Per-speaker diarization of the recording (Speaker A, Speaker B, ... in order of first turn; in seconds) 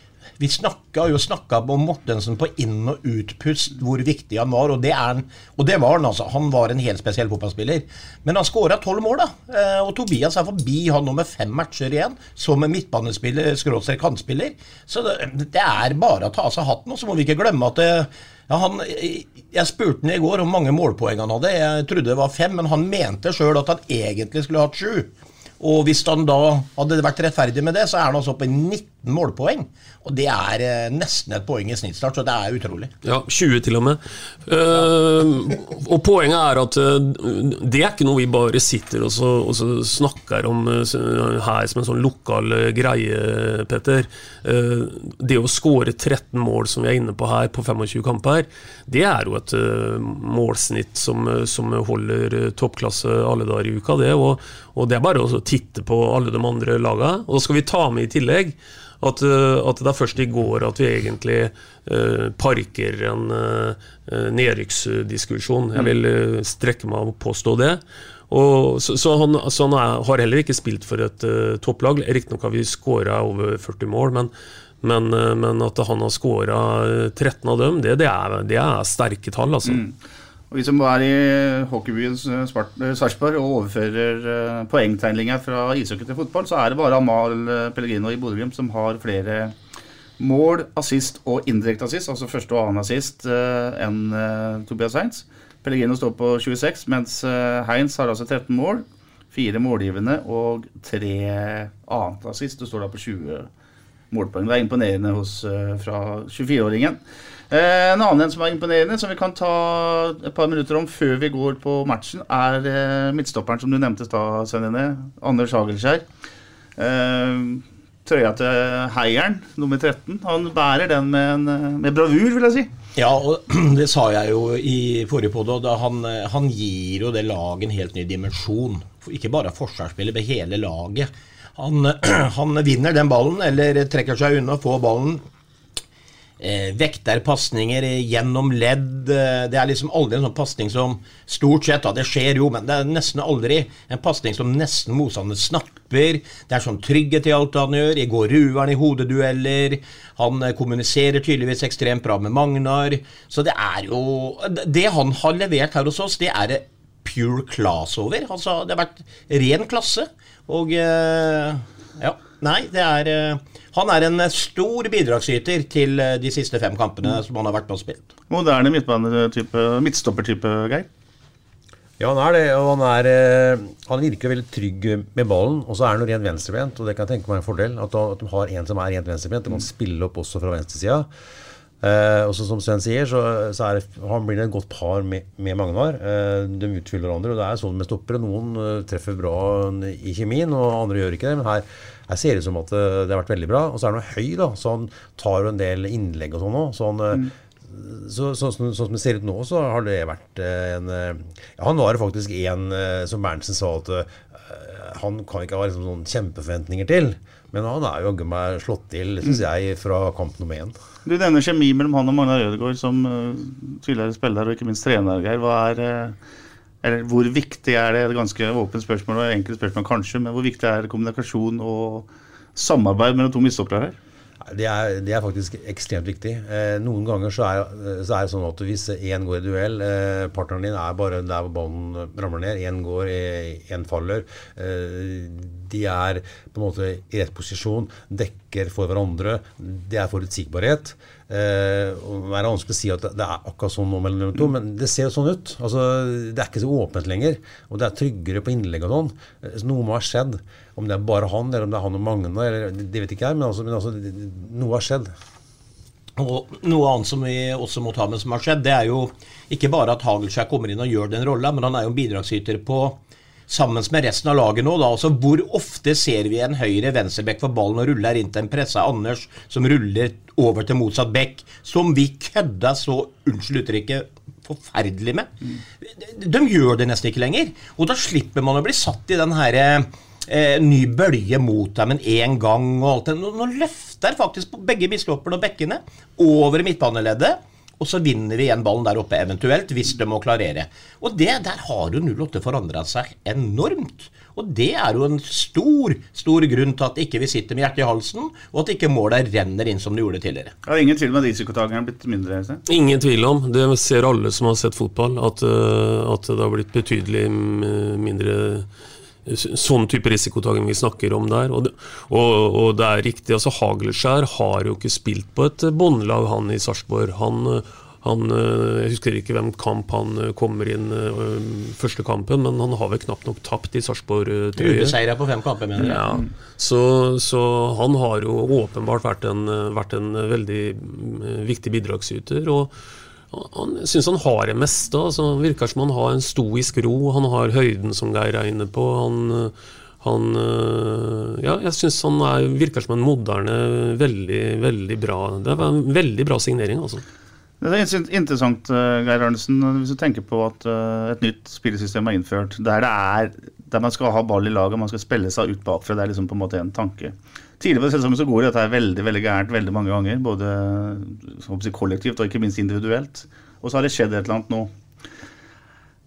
Speaker A: 0.4-32.9, 123.0-135.2, 136.4-168.1, 256.2-300.5, 324.6-326.0
Speaker B: 33.0-79.8, 302.7-308.7, 309.2-325.0, 325.8-332.7, 333.3-347.0
Speaker C: 79.6-80.0, 80.5-89.5, 90.2-103.5, 104.1-116.0, 116.8-122.7, 168.3-170.9, 211.0-216.2, 216.8-223.9, 300.6-302.6, 347.6-364.7
Speaker D: 172.0-181.1, 181.8-210.7, 224.4-255.1